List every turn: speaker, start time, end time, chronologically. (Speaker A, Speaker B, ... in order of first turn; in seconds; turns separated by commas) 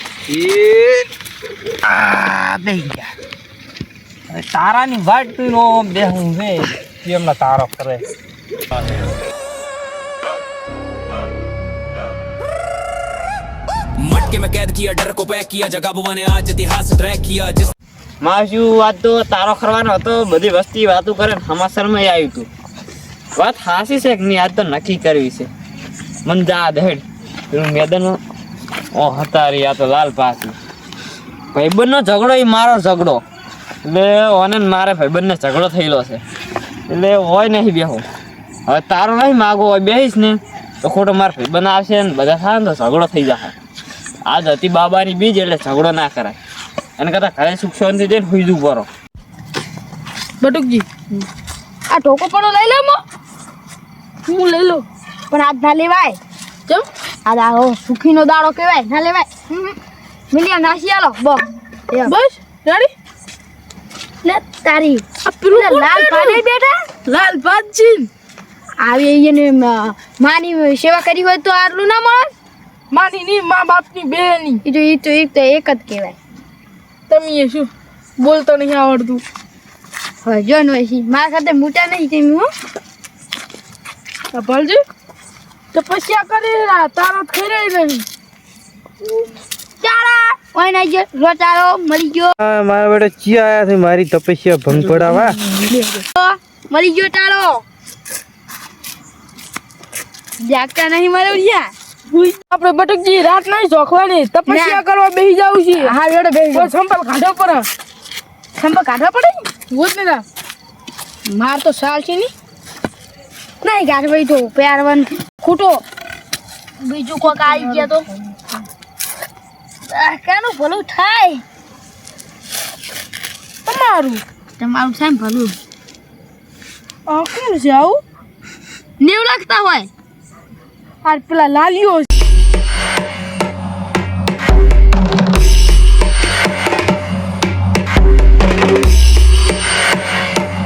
Speaker A: 0.3-1.1, Speaker A: 1.8-3.1, Speaker A: 4.3-8.0, Speaker B: 14.0-17.7, Speaker C: 18.2-22.5, Speaker C: 23.4-25.5, Speaker C: 26.2-28.2, Speaker C: 28.9-30.5, Speaker C: 31.5-33.2, Speaker C: 33.8-36.2, Speaker C: 36.9-38.0, Speaker C: 38.7-43.5, Speaker C: 44.2-46.4, Speaker C: 47.0-48.9, Speaker D: 50.4-50.9, Speaker E: 51.9-53.0, Speaker D: 54.2-54.8, Speaker E: 55.3-56.2, Speaker E: 57.2-59.7, Speaker E: 60.3-62.1, Speaker D: 62.0-62.9, Speaker E: 64.2-66.9, Speaker D: 65.2-66.4, Speaker D: 67.0-68.1, Speaker E: 68.8-72.3, Speaker D: 72.9-74.6, Speaker E: 74.6-76.2, Speaker D: 77.1-79.2, Speaker E: 80.2-82.5, Speaker D: 84.3-84.8, Speaker D: 85.7-88.0, Speaker E: 89.8-92.3, Speaker A: 92.4-95.4, Speaker E: 94.9-97.6, Speaker E: 100.4-101.7, Speaker D: 102.1-105.9, Speaker E: 104.5-104.8, Speaker E: 105.8-106.7, Speaker D: 106.5-107.7, Speaker E: 108.6-109.5, Speaker D: 109.7-110.2, Speaker E: 111.3-112.3, Speaker E: 113.6-115.3, Speaker D: 115.4-115.8, Speaker E: 116.8-118.1, Speaker D: 117.2-118.3, Speaker E: 119.9-121.4, Speaker D: 123.6-124.2, Speaker E: 124.6-125.6, Speaker D: 127.1-128.0, Speaker E: 129.0-129.9, Speaker D: 131.0-132.1